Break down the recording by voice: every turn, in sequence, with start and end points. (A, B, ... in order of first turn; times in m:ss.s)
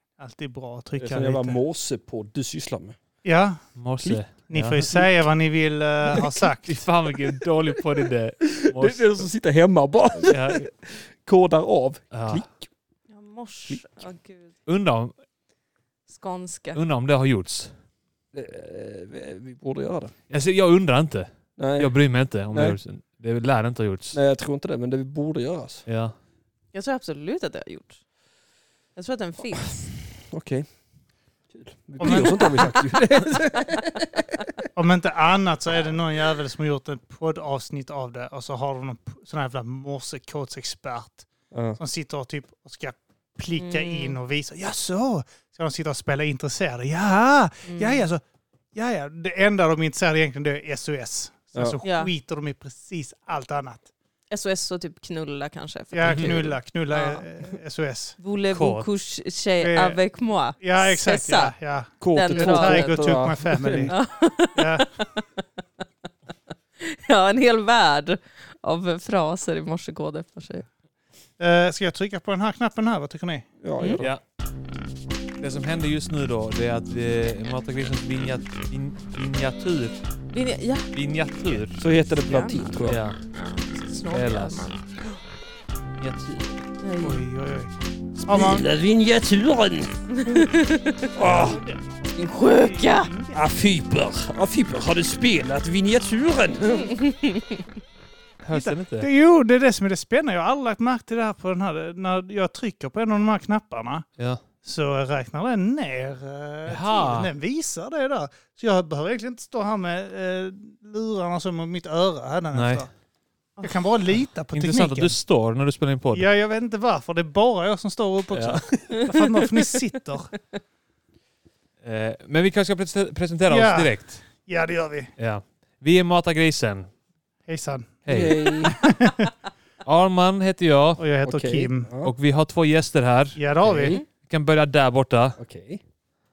0:00.2-0:01.6 A
0:01.0-0:03.0 B
0:03.2-0:03.6 A
0:03.8-0:04.8 C
0:04.5-0:06.8 A
0:06.6-0:09.3 C
0:08.6-0:12.7 B
0:10.2-0:10.6 C
0:12.1-0:12.4 C
0:13.1-0:14.5 D
0:14.6-0:15.1 C
0:16.1-0:16.8 D
0:16.7-0:17.7 C
0:18.3-0:20.1 B
0:20.3-0:24.2 C
0:21.6-0:21.9 B
0:22.5-0:22.8 B
0:24.1-0:25.8 B
0:25.9-0:26.1 C
0:26.7-0:28.0 D
0:29.0-0:29.8 D
0:29.8-0:30.7 B
0:31.5-0:34.2 B
0:32.0-0:32.7 A
0:32.0-0:32.8 D
0:34.7-0:41.2 A
0:41.5-0:41.8 B
0:41.8-0:48.2 A
0:43.6-0:44.2 D
0:47.6-0:48.0 D
0:48.7-0:53.9 A
0:51.5-0:51.8 B
0:51.8-0:52.1 D
0:54.3-0:57.2 D
0:55.9-0:58.2 A
0:58.2-1:01.5 D
0:58.5-0:58.9 C
0:59.6-1:00.0 A
1:00.6-1:03.9 A
1:02.0-1:03.9 B
1:02.1-1:03.1 D
1:03.9-1:05.2 D
1:04.5-1:04.9 A
1:06.8-1:10.6 D
1:11.4-1:13.5 A
1:13.6-1:14.1 B
1:15.4-1:20.0 C
1:20.3-1:20.8 D
1:20.9-1:21.8 C
1:21.8-1:23.0 B
1:22.3-1:22.7 D
1:22.8-1:23.2 C
1:23.6-1:25.0 D
1:24.1-1:24.7 C
1:26.1-1:26.4 B
1:26.8-1:27.2 D
1:27.0-1:27.7 A
1:28.2-1:29.9 B
1:28.3-1:28.7 A
1:30.1-1:31.1 D
1:31.2-1:31.6 B
1:31.2-1:31.5 C
1:31.3-1:31.9 A
1:32.1-1:33.1 D
1:32.4-1:33.4 A
1:33.3-1:37.0 B
1:36.8-1:37.6 D
1:38.4-1:39.1 C
1:38.5-1:44.0 A
1:44.6-1:52.9 A
1:46.7-1:47.3 C
1:52.5-1:52.8 C
1:53.6-1:55.2 A
1:54.5-1:56.2 C
1:56.1-2:00.3 A
1:58.3-1:58.9 C
1:59.0-1:59.3 D
2:01.8-2:04.2 C
2:03.5-2:05.1 A
2:05.2-2:06.9 C
2:07.5-2:09.2 A
2:08.0-2:08.4 C
2:08.1-2:08.8 B
2:09.8-2:11.0 C
2:11.0-2:11.9 A
2:11.2-2:12.1 B
2:12.0-2:15.4 C
2:13.4-2:14.0 A
2:15.4-2:15.8 B